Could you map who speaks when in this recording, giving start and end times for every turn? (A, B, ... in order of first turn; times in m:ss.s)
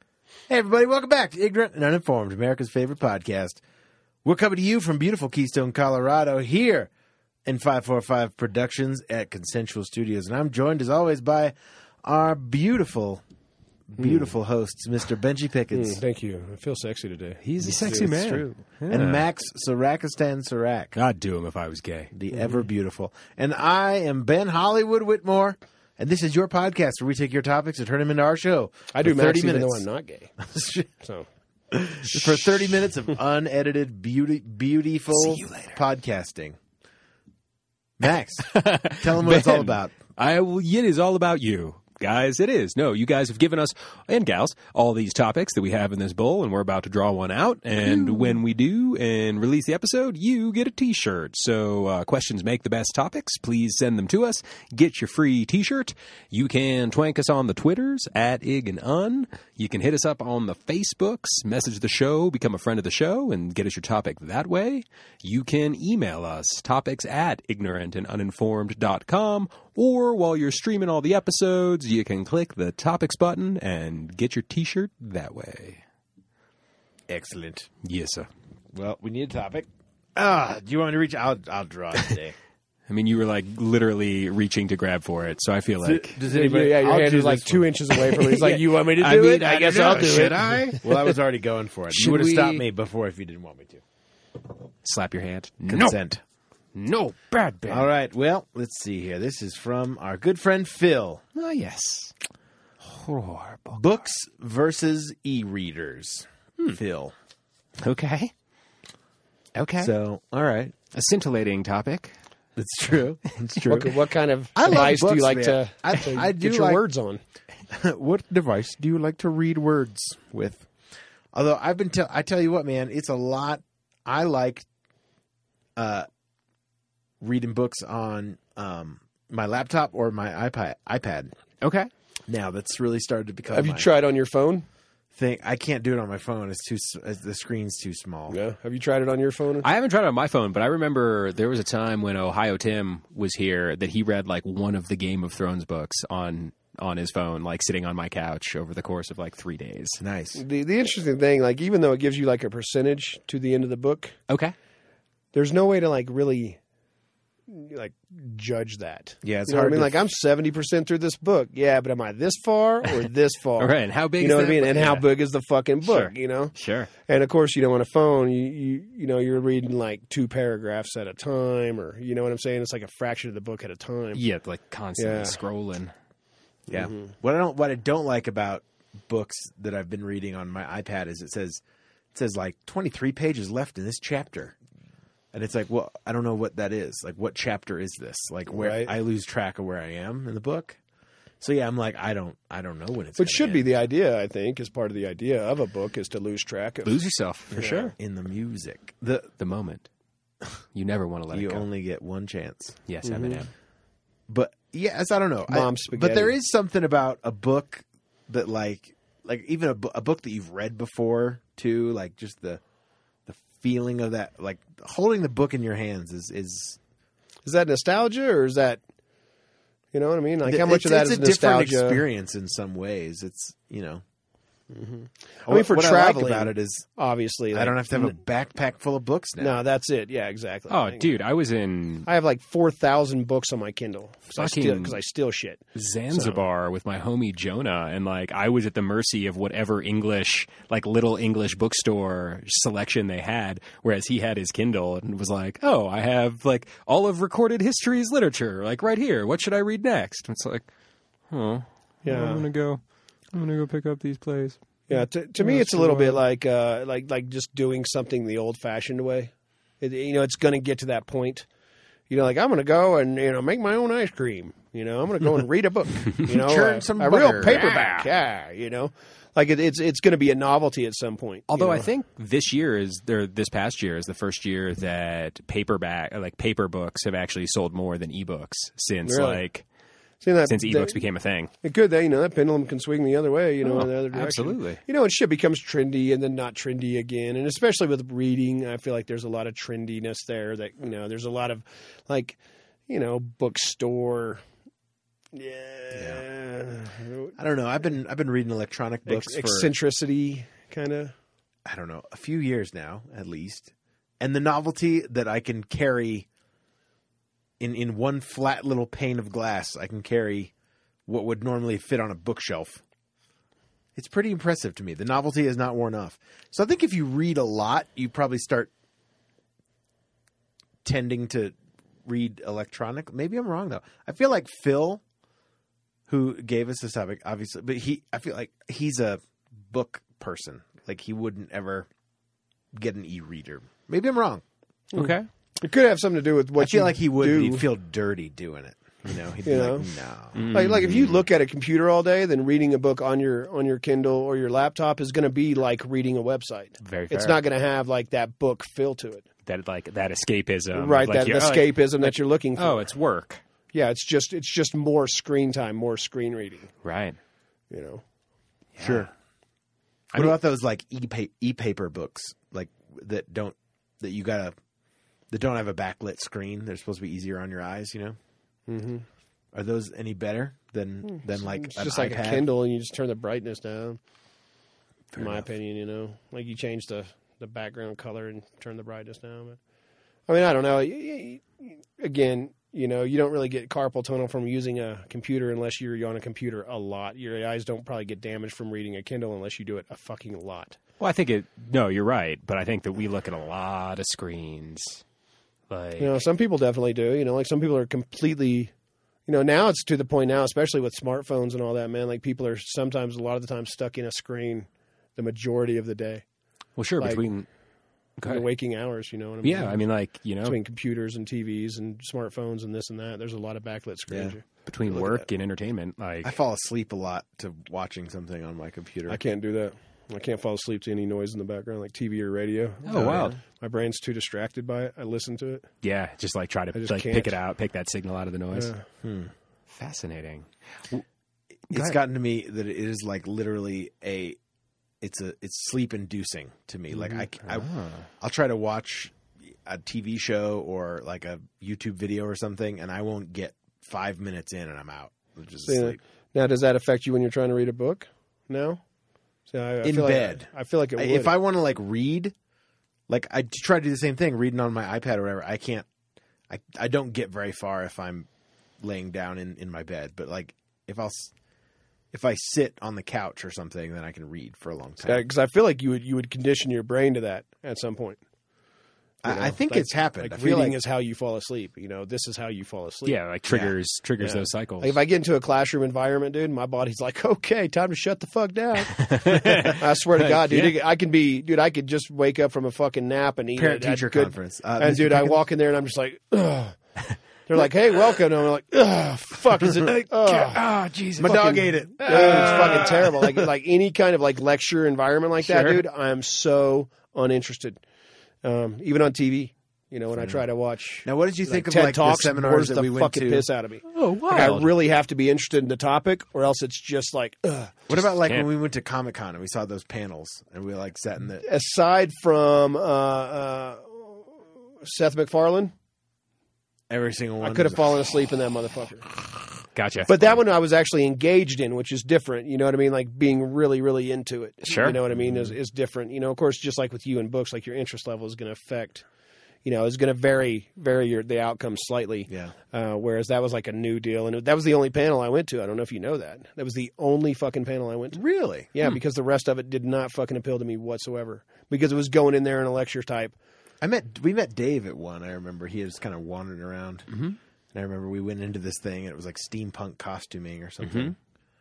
0:00.5-0:03.6 A
0:04.2-0:06.9 A
0:07.4-0:13.2 A
0:13.9-0:16.0 A
0:14.0-0:14.3 B
0:15.7-0:18.5 B
0:17.4-0:19.2 C
0:17.6-0:18.3 A
0:18.9-0:20.9 A
0:20.9-0:22.1 C
0:22.1-0:29.9 A
0:28.9-0:30.4 B
0:30.4-0:30.9 A
0:31.0-0:31.3 B
0:31.7-0:36.6 A
0:32.1-0:32.5 C
0:35.1-0:35.8 C
0:38.0-0:40.0 A
0:38.4-1:15.8 C
1:17.1-1:17.7 A
1:17.8-1:18.3 C
1:18.7-1:22.3 A
1:22.9-1:26.2 C
1:25.8-1:27.7 A
1:26.2-1:31.1 B
1:28.3-1:30.7 C
1:28.4-1:33.8 A
1:31.9-1:32.6 C
1:34.8-1:36.0 C
1:35.7-1:36.2 A
1:36.7-1:37.9 C
1:37.7-1:41.2 A
1:41.3-1:42.1 C
1:42.8-1:43.8 C
1:43.7-1:47.1 A
1:47.8-1:48.3 C
1:49.5-1:49.9 C
1:49.8-1:50.7 A
1:50.9-1:52.1 C
1:52.6-1:53.9 A
1:53.6-1:57.2 B
1:54.5-1:56.8 A
1:57.7-2:00.7 A
2:01.3-2:04.6 A
2:05.8-2:06.1 A
2:07.2-2:11.3 A
2:11.6-2:11.9 C
2:12.3-2:13.9 A
2:13.5-2:14.6 B
2:15.1-2:18.4 A
2:18.3-2:19.7 B
2:19.6-2:30.0 C
2:30.0-2:30.4 A
2:30.3-2:34.2 B
2:34.3-2:34.5 C
2:35.3-2:36.6 B
2:37.5-2:46.5 B
2:39.2-2:40.0 A
2:43.6-2:45.0 C
2:45.8-2:46.9 C
2:47.0-2:54.2 B
2:54.1-2:55.9 C
2:55.0-2:55.4 B
2:56.7-3:01.6 A
2:56.7-2:57.1 B
3:02.1-3:04.5 A
3:05.3-3:10.8 A
3:08.5-3:08.9 B
3:11.4-3:13.7 A
3:13.2-3:17.0 B
3:16.8-3:17.9 C
3:17.5-3:17.9 B
3:18.0-3:19.3 A
3:19.4-3:19.9 C
3:20.7-3:21.6 C
3:21.3-3:22.8 A
3:22.9-3:23.5 C
3:23.0-3:23.4 B
3:24.3-3:32.6 A
3:25.5-3:26.3 B
3:33.2-3:36.8 A
3:37.4-3:38.8 B
3:39.9-3:42.0 B
3:40.4-3:44.0 A
3:44.7-3:48.2 B
3:45.4-3:46.8 A
3:47.5-3:49.6 A
3:49.4-3:51.1 B
3:50.7-3:52.1 C
3:52.0-3:56.4 B
3:54.3-3:55.0 C
3:55.7-4:10.7 C
4:11.3-4:12.8 C
4:12.0-4:12.5 B
4:13.3-4:16.2 C
4:14.9-4:21.5 B
4:22.1-4:31.9 B
4:26.3-4:27.6 A
4:27.4-4:28.1 C
4:31.5-4:39.6 C
4:39.0-4:39.4 B
4:40.2-4:41.0 B
4:40.5-4:41.5 C
4:41.6-4:54.4 B
4:43.6-4:44.8 C
4:55.3-4:57.3 B
4:55.9-4:56.2 A
4:57.4-4:59.7 A
4:59.0-5:01.1 B
5:01.6-5:06.3 A
5:07.6-5:10.5 A
5:11.1-5:12.8 A
5:14.0-5:18.7 A
5:20.8-5:25.0 A
5:26.1-5:31.9 A
5:32.7-5:34.4 A
5:34.9-5:37.7 B
5:34.9-5:35.3 C
5:36.6-5:41.2 A
5:39.4-5:39.9 B
5:40.3-5:41.0 C
5:40.5-5:49.2 B
5:46.8-5:47.4 C
5:49.4-5:53.4 C
5:50.7-5:52.8 B
5:53.7-5:56.7 B
5:56.8-5:57.2 C
5:57.7-5:58.0 B
5:58.8-5:59.1 C
5:58.8-5:59.1 A
6:00.1-6:04.6 A
6:05.3-6:08.2 A
6:08.7-6:09.0 B
6:09.5-6:12.4 A
6:11.1-6:14.0 B
6:15.1-6:15.5 A
6:15.2-6:19.6 B
6:20.3-6:30.8 B
6:31.0-6:35.0 C
6:35.7-6:36.2 C
6:36.0-6:38.7 B
6:39.3-6:46.2 B
6:46.8-6:47.5 C
6:47.0-6:47.2 B
6:48.2-6:48.4 C
6:48.2-6:49.8 B
6:49.4-6:50.6 C
6:50.4-6:55.2 B
6:54.1-6:54.3 A
6:54.6-6:56.4 C
6:56.2-6:59.2 A
6:59.1-7:05.7 B
7:02.8-7:03.3 C
7:02.9-7:03.4 A
7:05.8-7:08.7 C
7:06.7-7:07.4 B
7:08.5-7:08.8 B
7:09.0-7:09.3 A
7:09.7-7:11.0 C
7:11.7-7:12.0 C
7:11.7-7:14.4 A
7:15.0-7:26.0 A
7:16.9-7:18.1 C
7:25.6-7:28.8 B
7:29.5-7:31.3 B
7:29.8-7:32.3 A
7:33.1-7:35.9 A
7:36.5-7:38.3 A
7:38.8-7:41.3 A
7:42.1-7:45.2 A
7:45.0-7:48.2 B
7:49.2-7:50.8 A
7:49.2-7:53.2 B
7:53.0-7:55.0 C
7:54.2-8:06.8 B
7:58.8-8:00.8 C
8:03.6-8:05.3 A
8:07.4-8:10.6 B
8:09.8-8:13.2 C
8:11.2-8:13.0 A
8:11.2-8:17.8 B
8:15.4-8:15.8 C
8:18.4-8:27.9 B
8:21.0-8:23.5 A
8:23.9-8:24.7 C
8:27.9-8:31.4 A
8:27.9-8:28.5 C
8:31.4-8:35.7 B
8:36.9-8:38.0 A
8:37.4-8:39.1 B
8:39.7-8:40.1 C
8:40.1-8:49.0 B
8:44.6-8:45.0 C
8:45.1-8:45.5 A
8:49.6-8:58.2 B
8:52.3-8:52.5 A
8:58.1-8:58.7 A
8:58.7-9:03.3 B
9:03.8-9:07.1 A
9:07.1-9:07.4 C
9:07.7-9:11.2 A
9:10.8-9:11.1 C